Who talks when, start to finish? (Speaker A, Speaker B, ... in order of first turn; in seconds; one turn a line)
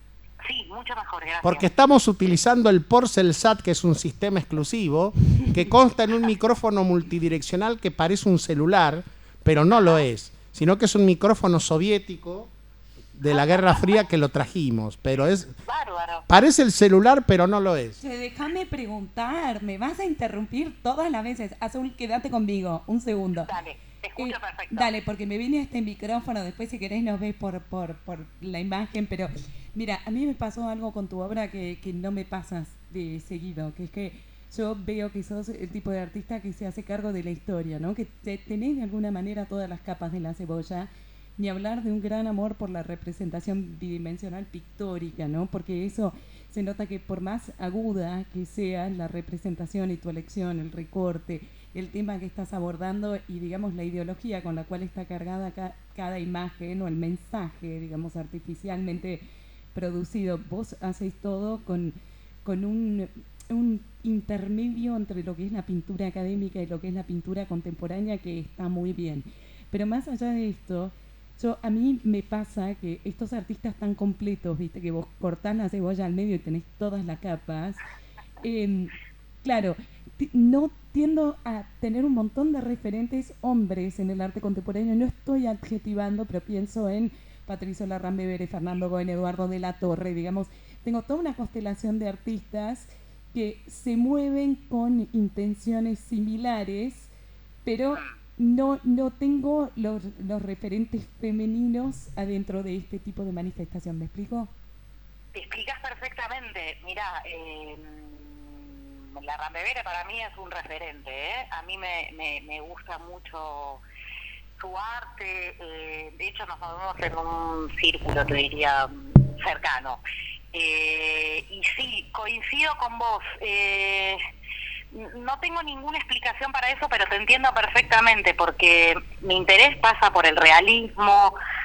Speaker A: 0.4-1.6
Speaker B: 1.4-12.5
Speaker B: 13.2-15.5
Speaker A: 13.3-13.8
Speaker A: 15.7-16.2
Speaker B: 16.3-18.0
Speaker C: 18.0-23.5
Speaker A: 23.4-24.9
Speaker C: 24.1-77.8
Speaker C: 78.4-78.9
Speaker C: 79.4-97.1
Speaker C: 97.6-104.5
Speaker A: 105.3-113.8
Speaker A: 114.6-120.0
Speaker A: 120.5-124.2
Speaker A: 124.9-131.4